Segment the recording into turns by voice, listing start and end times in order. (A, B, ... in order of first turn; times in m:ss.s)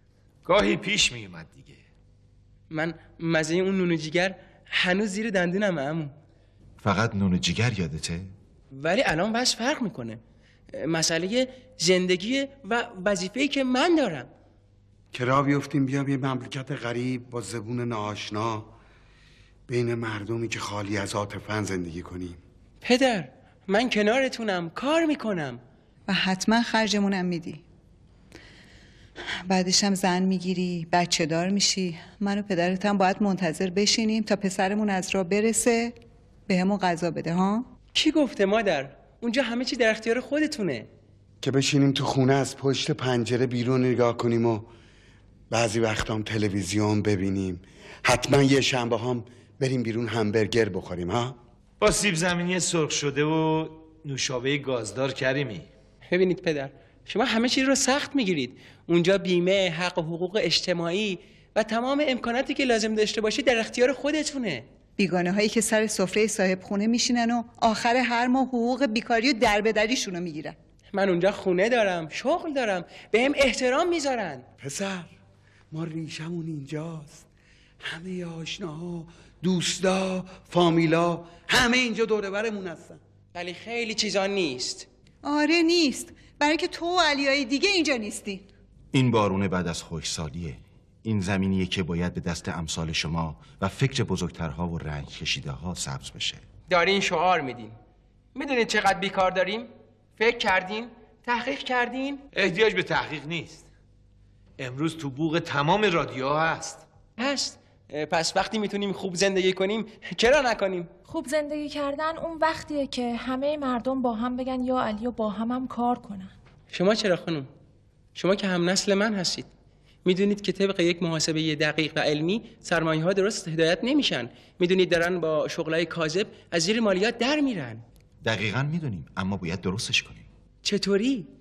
0:00.4-0:01.8 A
0:02.7-0:06.1 B
0:06.8-0:08.3 C
0:08.7-0:10.2 B
0:10.7-0:14.3 B
0:15.1-0:18.7 D
0:19.7-0:22.4 D
0:22.8-0:25.6 B
0:26.1-0:27.6 E
0:29.5-0:35.9 E
0:36.5-0:37.6 E
0:37.9-0:40.9 B
0:41.4-0:44.7 D
0:45.5-0:51.4 D
0:51.8-0:55.7 A
0:56.1-1:04.6 B
1:05.0-1:10.6 E
1:10.9-1:14.4 B
1:14.6-1:15.1 D
1:15.7-1:17.2 D
1:17.8-1:23.0 D
1:23.3-1:24.9 B
1:25.2-1:28.4 E
1:28.9-1:36.4 C
1:36.7-1:37.8 B
1:38.3-1:42.2 B
1:42.3-1:43.6 A
1:44.6-1:46.8 A
1:47.2-1:50.9 B
1:51.1-1:56.3 F
1:56.7-1:57.5 B
1:58.1-1:59.5 B
2:00.0-2:07.8 B
2:08.2-2:10.3 C
2:10.6-2:11.3 B